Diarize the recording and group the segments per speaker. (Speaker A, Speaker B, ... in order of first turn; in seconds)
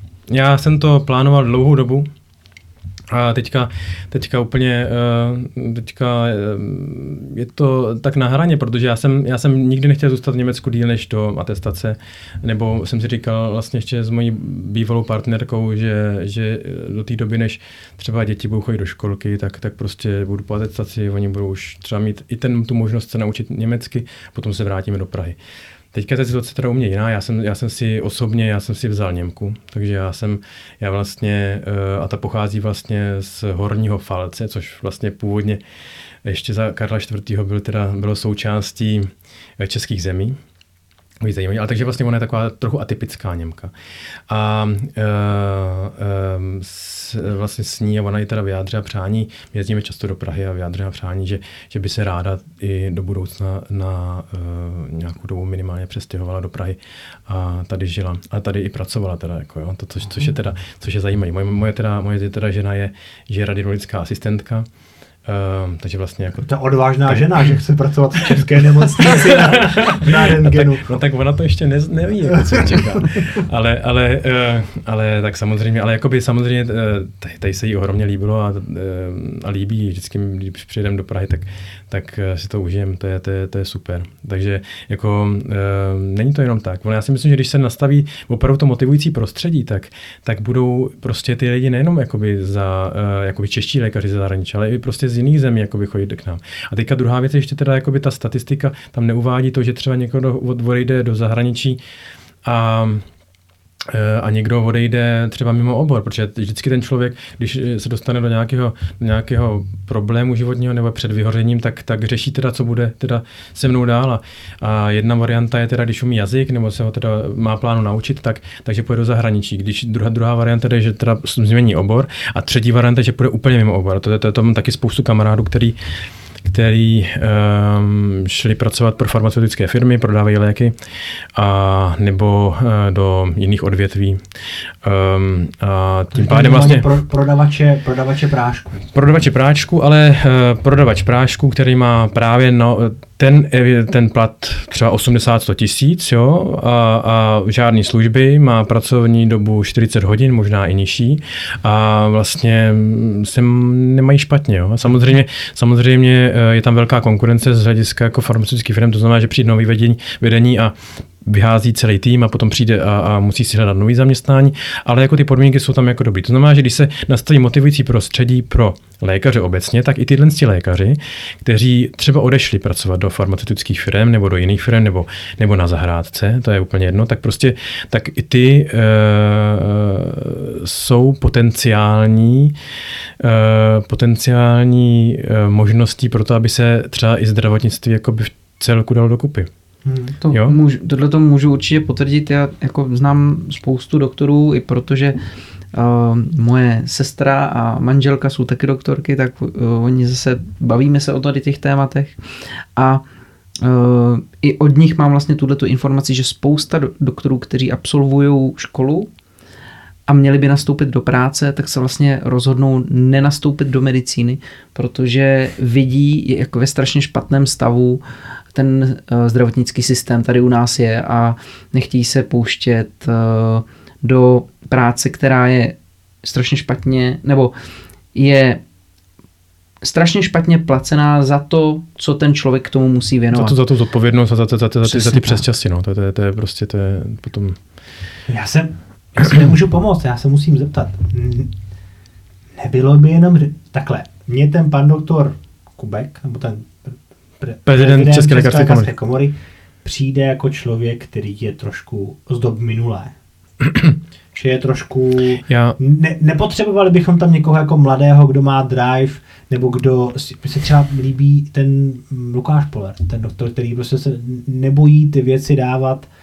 Speaker A: 0.3-2.1, 3.1-25.4, 25.9-35.6, 36.2-40.4, 41.2-43.7, 44.3-64.7, 65.2-66.5, 67.1-67.5, 69.0-101.8, 102.4-103.0, 103.8-125.8, 126.4-130.8, 131.3-134.2, 134.8-136.9, 138.9-182.6, 183.2-189.5, 190.3-190.6, 233.3-237.6, 247.7-248.9, 255.5-255.8
Speaker B: 66.5-71.0, 72.3-73.1, 136.1-138.9, 189.8-190.2, 238.3-241.5, 242.6-253.1, 254.3-266.1
Speaker C: 190.2-195.2, 195.7-202.2, 202.8-203.0, 203.6-209.1, 210.1-227.6, 228.1-228.6, 229.8-233.6, 234.8-235.4